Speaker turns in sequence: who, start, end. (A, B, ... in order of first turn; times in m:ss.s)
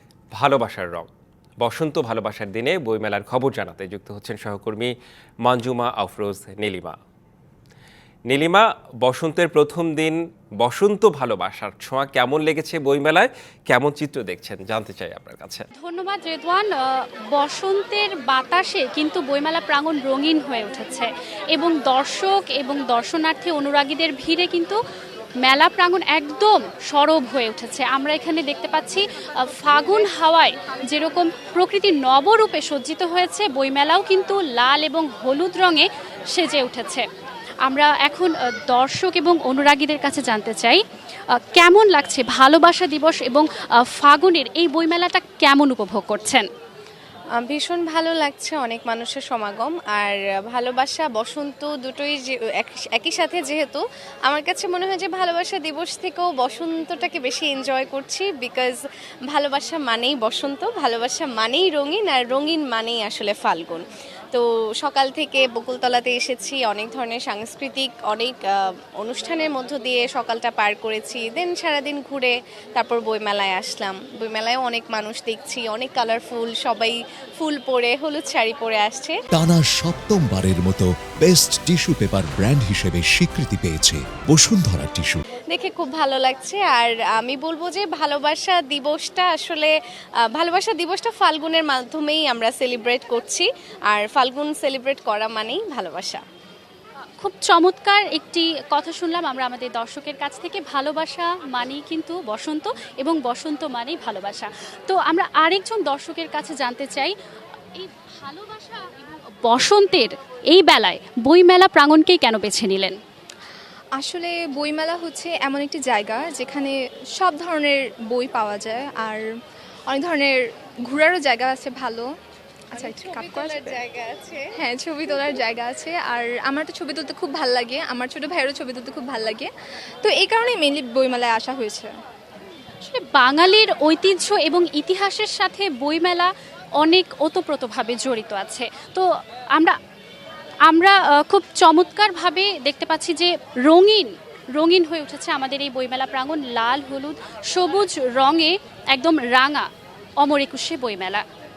0:00.3-0:01.1 A
0:01.6-0:04.9 A
0:05.4-0:07.0 A
0:08.3-0:15.6 A
0:15.8-0:24.8 B
0:25.4-0:37.0 B
0:37.6-0:40.8 B
0:41.3-0:46.5 B
0:47.4-0:58.8 C
0:59.3-1:19.1 C
1:19.3-1:25.2 D
1:25.5-1:29.7 C
1:30.3-1:36.2 C
1:37.2-1:47.1 B
1:47.7-1:53.0 B
1:54.0-1:59.2 E
1:59.9-2:02.1 E
2:02.7-2:03.8 E
2:02.7-2:04.4 C
2:04.6-2:09.5 E
2:05.1-2:05.4 C
2:10.0-2:11.9 E
2:12.8-2:19.8 B
2:20.7-2:29.7 B
2:30.2-2:31.2 B